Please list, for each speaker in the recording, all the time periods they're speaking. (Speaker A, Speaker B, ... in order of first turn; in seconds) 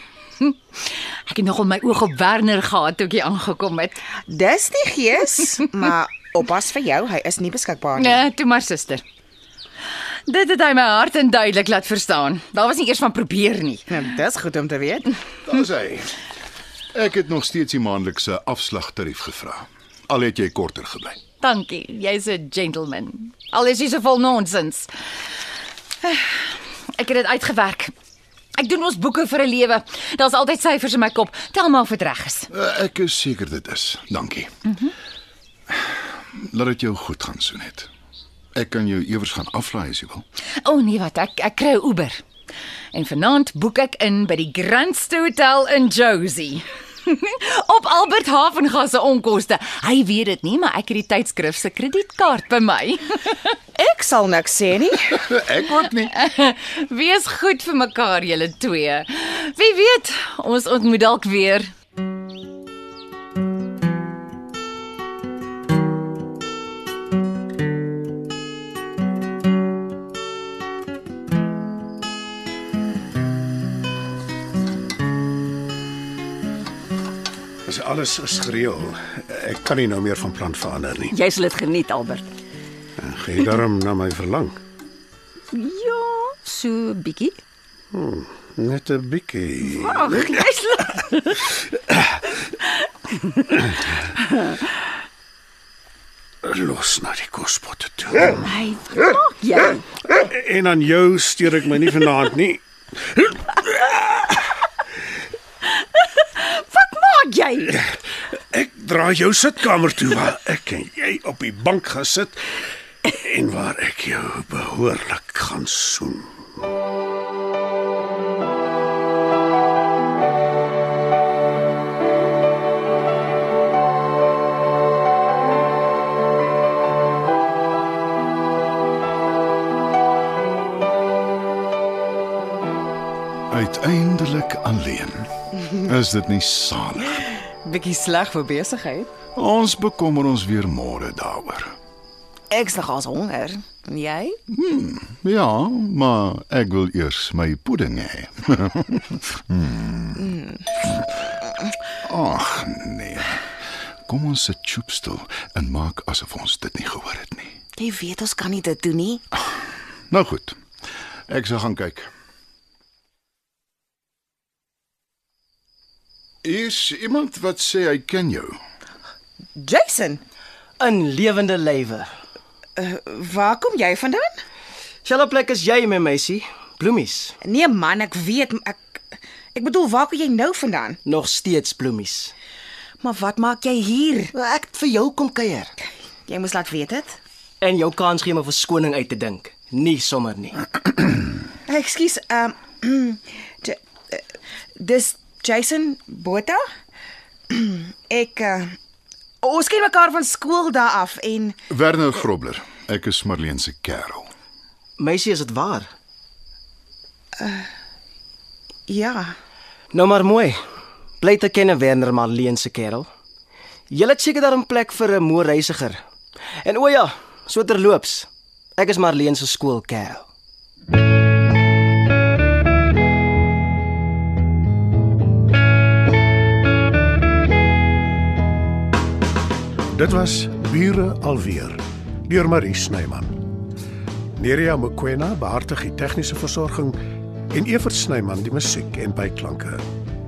Speaker A: 1.2-4.0, 8.0-9.0, 10.2-13.9, 21.4-24.9, 26.0-26.3, 26.9-27.9, 28.6-32.5, 40.6-42.2, 42.9-53.5, 56.0-61.7
Speaker B: 4.3-8.2, 13.9-15.1, 53.8-55.3, 137.6-139.1, 142.5-144.4, 157.8-159.2, 169.6-170.2, 172.8-174.3, 177.4-179.0, 179.5-181.0, 183.0-184.3, 186.3-187.2, 191.7-194.2, 194.8-196.6, 197.5-198.7, 199.4-201.6, 207.4-207.7, 208.9-209.3
Speaker C: 15.5-16.1, 16.9-21.2, 32.5-34.5, 36.4-37.9, 38.5-40.2, 55.3-56.1, 133.5-135.3, 135.9-137.1, 139.3-141.7, 144.5-150.2, 152.0-153.4, 154.1-157.5, 160.1-160.6, 161.3-162.1, 166.4-168.6, 201.7-204.3
Speaker D: 77.7-81.2, 83.0-84.6, 87.9-90.2, 96.4-98.4, 100.1-104.3, 108.3-116.3, 229.9-233.4, 234.4-237.0, 237.5-239.8
Speaker E: 81.1-82.3, 85.5-87.4, 89.6-91.4, 98.5-99.8, 105.9-107.8
Speaker F: 170.8-172.1, 175.0-177.3, 181.0-182.3, 184.3-185.7, 187.6-190.6, 205.0-205.9, 209.9-210.6, 211.2-213.1, 213.9-216.0, 216.6-220.2